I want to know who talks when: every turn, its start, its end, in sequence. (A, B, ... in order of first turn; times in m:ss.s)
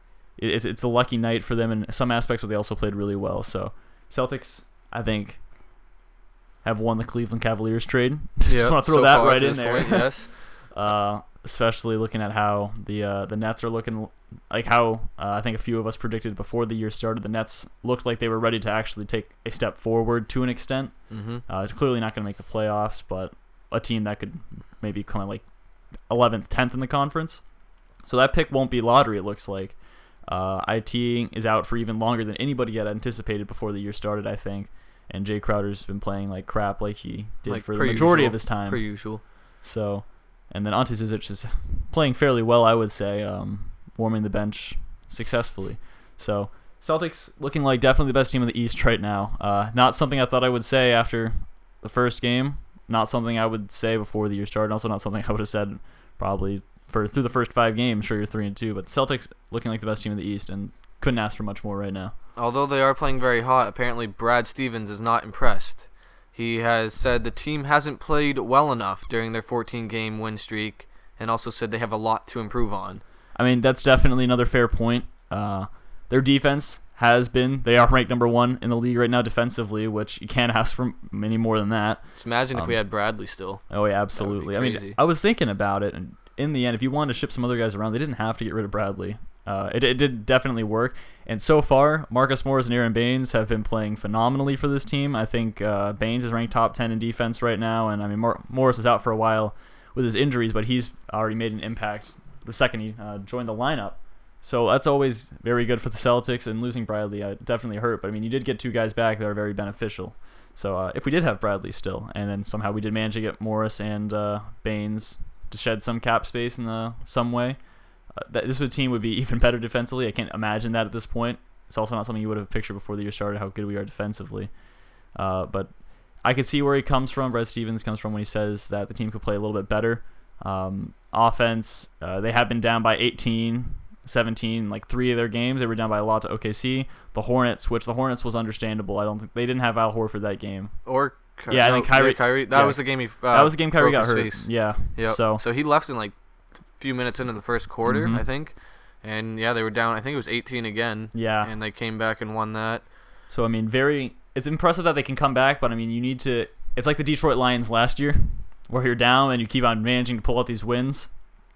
0:00.4-0:05.4 A
0:06.6-0:25.4 A
0:08.5-0:10.3 B
0:21.1-0:21.4 B
0:26.1-0:27.4 A
0:28.0-0:38.9 A
0:37.5-0:39.2 B
0:39.6-1:02.1 A
1:02.4-1:13.0 B
1:13.4-1:22.8 A
1:22.2-1:25.0 B
1:23.7-1:57.6 A
1:58.1-2:04.5 A
2:05.1-2:20.8 A
2:20.8-2:26.2 B
2:21.5-2:25.4 A
2:26.7-2:32.9 B
2:27.8-2:28.2 A
2:31.1-2:31.5 A
2:33.3-2:41.1 A